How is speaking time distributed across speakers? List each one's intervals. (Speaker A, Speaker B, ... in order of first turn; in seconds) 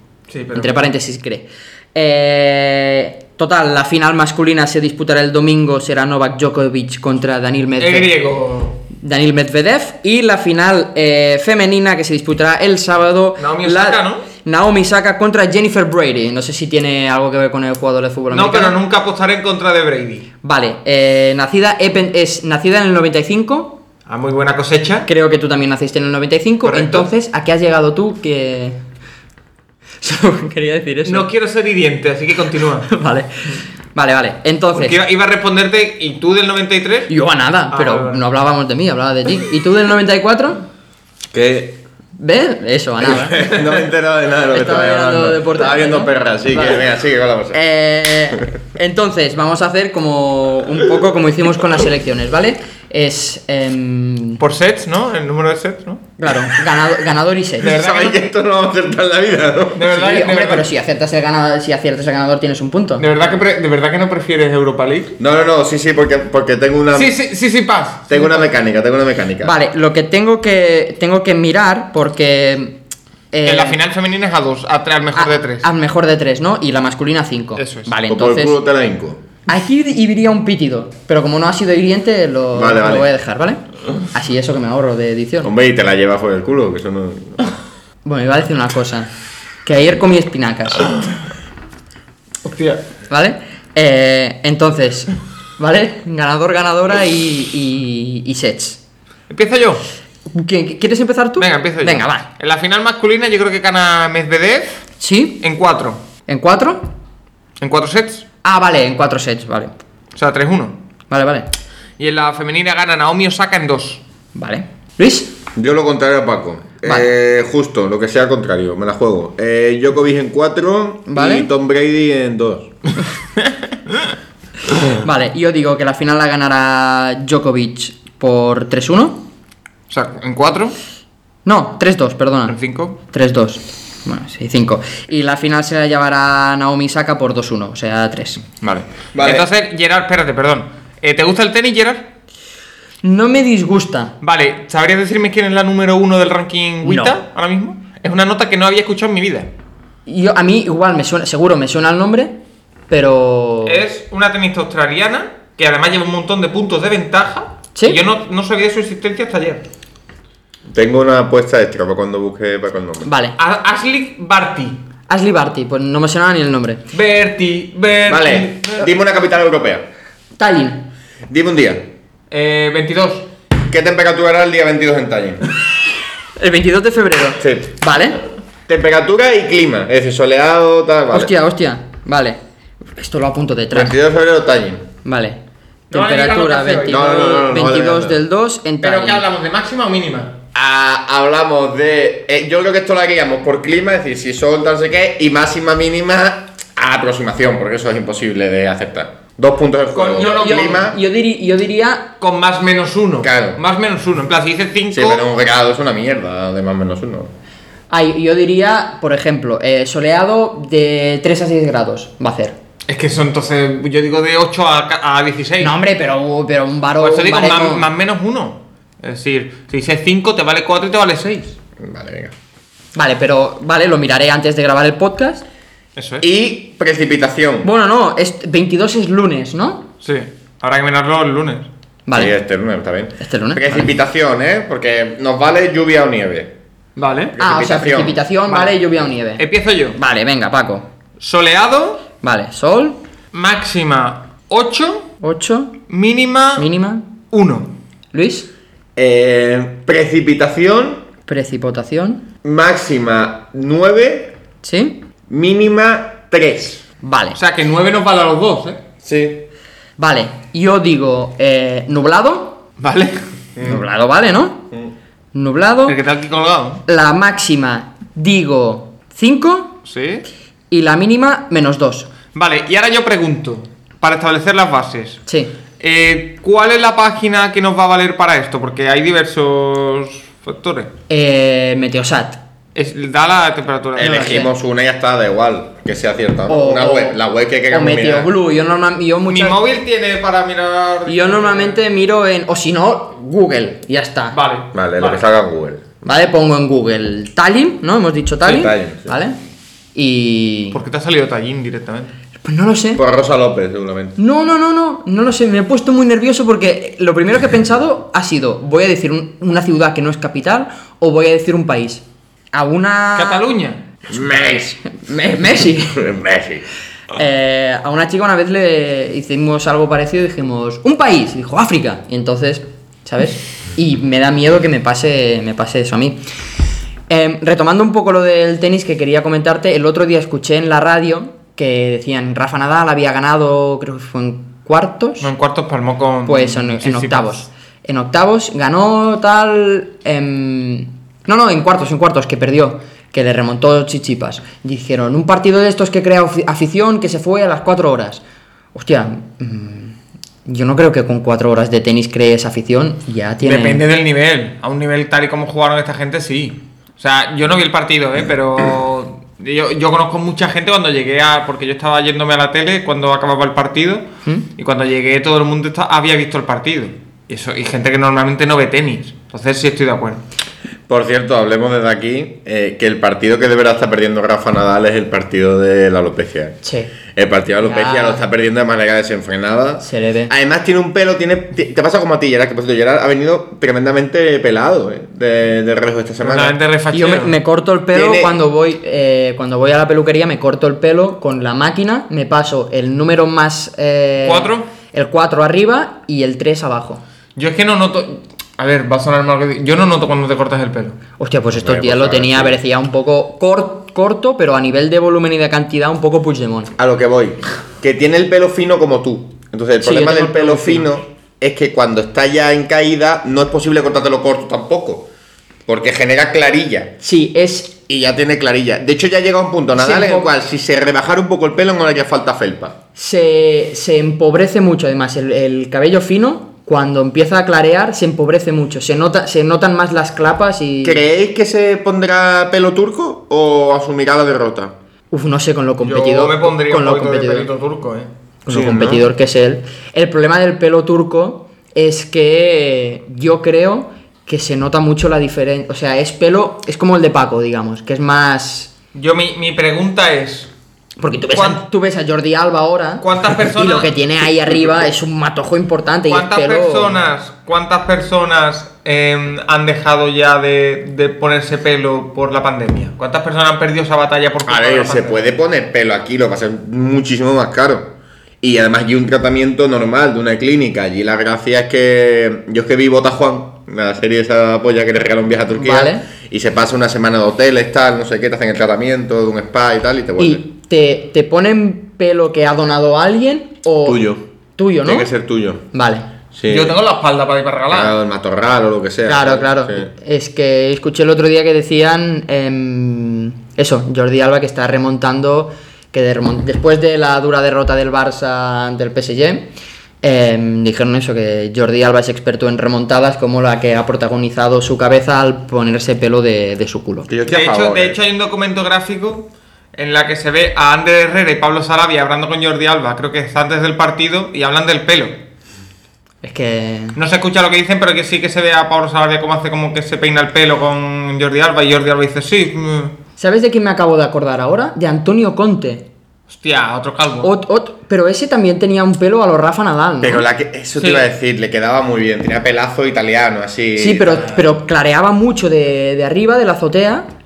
Speaker A: 0.3-0.8, 7.8-8.8, 13.4-14.2, 18.3-20.3, 24.1-25.1, 26.6-27.1, 31.0-32.9, 34.7-37.1, 37.7-38.2, 54.4-56.1, 57.6-58.2, 59.7-60.7, 63.0-65.2, 66.9-68.4, 73.4-75.7, 77.6-77.9, 92.4-92.8, 99.3-99.8, 101.4-104.8, 105.4-106.0, 107.6-108.2, 110.1-110.8, 112.0-114.0, 129.9-130.8, 132.5-133.0, 138.6-142.1, 144.2-149.5, 153.7-159.6, 163.4-164.8, 166.9-168.9, 172.3-173.3, 185.9-187.3, 188.8-190.3, 200.0-200.8, 202.2-205.3, 212.9-215.7, 217.0-221.6, 225.9-226.2, 230.0-231.7, 236.9-237.3, 238.5-238.8, 239.4-240.0, 241.2-242.0, 243.3-245.1, 245.9-246.7, 247.3-247.7, 257.4-258.8, 262.8-263.2, 265.9-266.8, 269.9-270.2, 272.3-275.2, 275.8-280.9, 282.7-284.5, 289.3-291.8, 294.3-295.2, 300.7-302.1, 313.1-313.8, 335.2-337.4, 353.4-370.2, 386.2-387.3, 394.2-394.7, 397.4-401.0, 435.8-438.1, 448.9-450.5, 451.3-451.6, 453.0-453.9, 456.1-465.3, 486.5-487.9, 507.2-515.1, 517.0-522.9, 526.3-527.3, 530.8-531.0
Speaker B: 0.5-8.1, 8.9-18.8, 20.4-23.8, 25.1-28.8, 30.0-31.3, 32.9-35.0, 37.1-40.6, 42.2-43.5, 44.5-46.8, 47.5-54.4, 56.2-57.7, 59.9-63.0, 69.4-72.8, 73.3-73.8, 75.1-78.6, 79.5-83.6, 84.1-85.5, 88.0-89.1, 89.6-91.0, 93.1-98.8, 100.3-102.3, 105.0-105.4, 106.3-106.9, 108.4-109.7, 111.1-111.5, 114.3-115.3, 121.1-121.5, 124.8-129.2, 131.4-132.6, 133.1-138.5, 143.0-144.1, 146.8-147.1, 150.1-152.4, 152.9-153.8, 157.7-158.0, 163.0-163.4, 165.1-166.8, 170.4-170.8, 176.4-178.2, 181.1-182.4, 182.9-183.9, 185.0-185.4, 185.9-189.2, 200.0-202.1, 207.9-212.6, 215.6-217.9, 222.9-225.4, 227.6-229.9, 232.1-232.3, 233.2-233.9, 237.4-239.4, 239.9-240.9, 242.2-243.0, 245.2-245.8, 246.6-247.1, 248.1-248.5, 251.3-252.3, 254.6-255.0, 257.0-257.4, 260.0-262.6, 263.6-264.7, 265.3-266.0, 266.9-269.8, 270.7-272.1, 275.3-275.5, 281.1-282.4, 284.0-284.5, 286.5-287.2, 287.7-289.6, 291.1-294.4, 296.0-299.4, 299.9-300.8, 302.4-303.0, 304.2-313.4, 314.8-316.0, 317.1-326.2, 327.1-335.3, 336.2-348.2, 348.7-353.8, 376.6-376.9, 377.6-378.2, 379.8-380.3, 386.9-397.0, 401.2-406.7, 409.8-410.9, 417.0-417.8, 419.8-420.3, 422.9-431.0, 435.1-437.5, 438.4-448.7, 451.0-457.0, 475.5-476.0, 480.2-485.1, 485.7-486.1, 489.1-499.5, 500.0-507.1, 516.2-517.0, 523.2-525.9, 527.2-530.2, 533.8-537.1
Speaker C: 41.3-41.8, 43.0-47.6, 57.6-59.9, 65.2-67.1, 68.1-69.5, 78.1-79.2, 82.5-83.1, 85.4-87.5, 115.5-122.7, 139.1-139.5, 160.7-163.1, 168.1-169.8, 171.3-171.9, 173.7-175.4, 177.4-177.8, 178.7-181.3, 183.7-184.9, 186.8-188.2, 190.5-201.0, 203.2-203.6, 204.9-207.3, 221.8-222.3, 226.2-227.7, 232.1-236.5, 237.3-238.2, 248.9-251.0, 252.4-254.3, 255.3-256.8, 259.0-259.4, 283.9-288.3, 294.7-295.9, 298.4-299.1, 302.9-304.2, 314.1-314.8, 315.8-316.6, 370.9-376.6, 377.1-386.6, 387.9-388.4, 401.5-402.6, 406.8-415.1, 415.7-416.9, 417.9-422.8, 430.8-434.7, 438.5-439.1, 464.4-467.9, 468.4-480.4, 483.8-484.2, 484.8-485.6, 486.3-486.8, 487.7-489.9, 507.1-508.0, 530.0-534.3